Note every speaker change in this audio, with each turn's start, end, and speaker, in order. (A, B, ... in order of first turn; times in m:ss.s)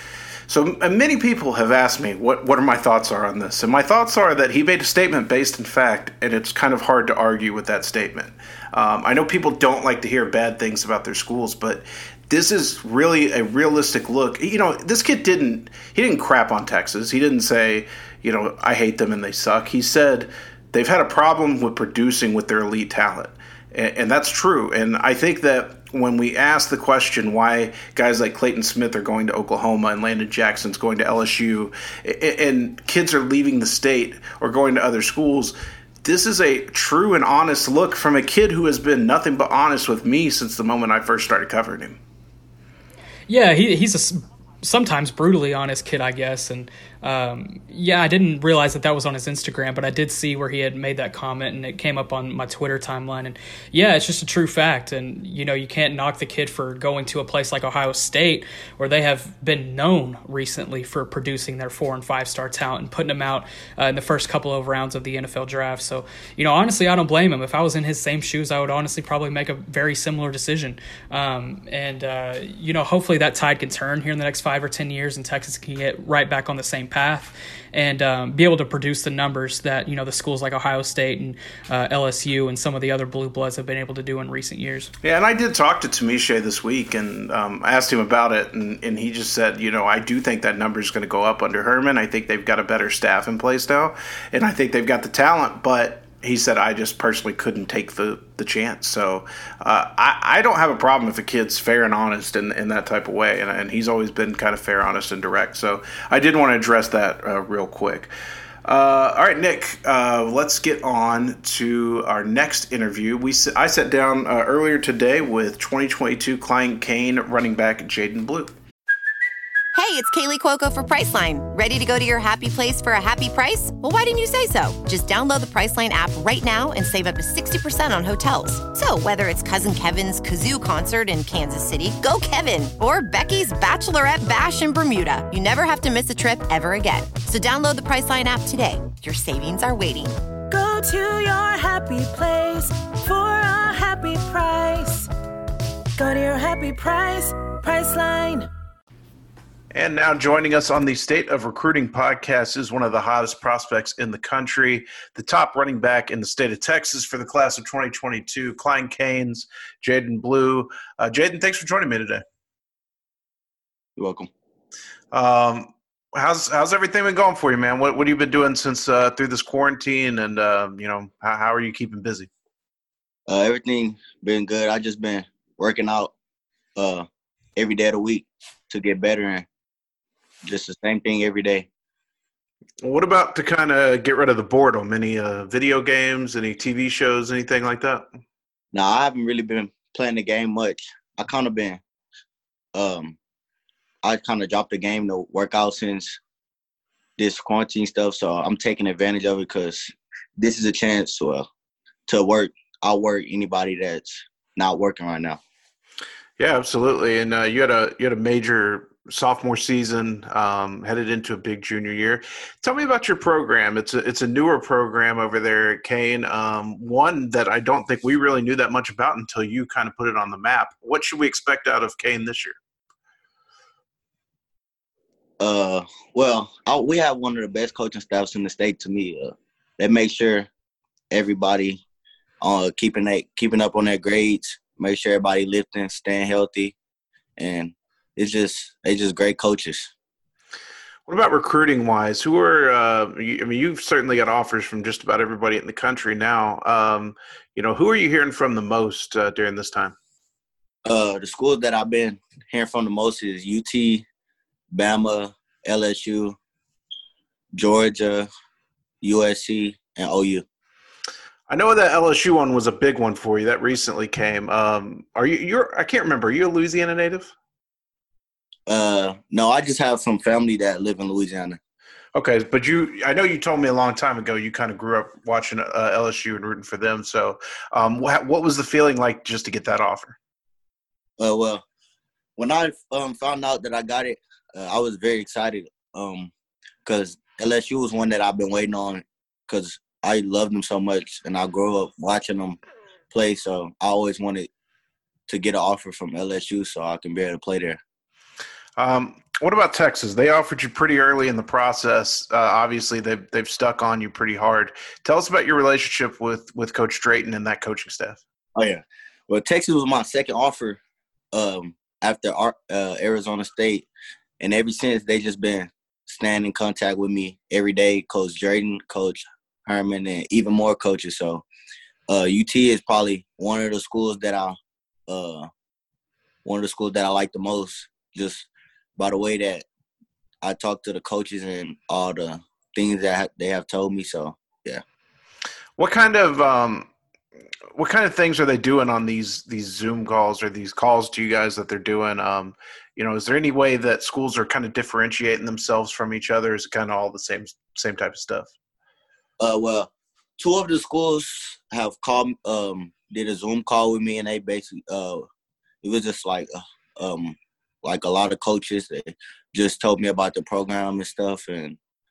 0:00.5-0:42.0 A
0:43.3-1:24.9 B
1:25.0-1:48.1 A
1:48.6-1:58.5 A
1:59.7-2:20.2 C
2:20.5-2:25.1 D
2:26.0-2:28.5 D
2:29.7-2:42.2 A
2:44.0-2:44.3 E
2:45.1-2:52.3 A
2:53.3-2:56.1 E
2:56.8-2:59.4 E
3:00.4-3:01.7 E
3:02.8-3:08.1 A
3:08.7-3:11.8 E
3:12.7-3:13.2 E
3:14.0-3:16.2 E
3:17.2-3:21.5 E
3:22.1-3:25.4 E
3:26.4-3:42.6 A
3:45.4-3:50.5 E
3:51.1-3:51.8 E
3:52.4-3:56.7 E
3:57.4-3:59.9 E
4:01.1-4:09.9 A
4:10.8-4:14.0 E
4:14.7-4:16.4 E
4:17.5-4:18.3 E
4:19.0-4:20.4 E
4:21.5-4:27.3 A
4:28.7-4:31.6 E
4:32.1-4:40.2 A
4:41.2-4:41.6 E
4:42.4-4:46.3 E
4:46.8-4:52.6 E
4:53.1-4:54.5 E
4:55.3-4:57.8 E
4:58.8-5:08.2 A
5:08.5-5:10.8 E
5:11.3-5:13.9 E
5:14.4-5:21.4 E
5:22.1-5:24.6 E
5:25.1-5:25.5 E
5:26.4-5:29.6 E
5:30.4-5:34.8 E
5:35.8-5:36.9 A
5:37.7-5:48.5 A
5:49.4-5:55.2 E
5:55.8-6:01.8 E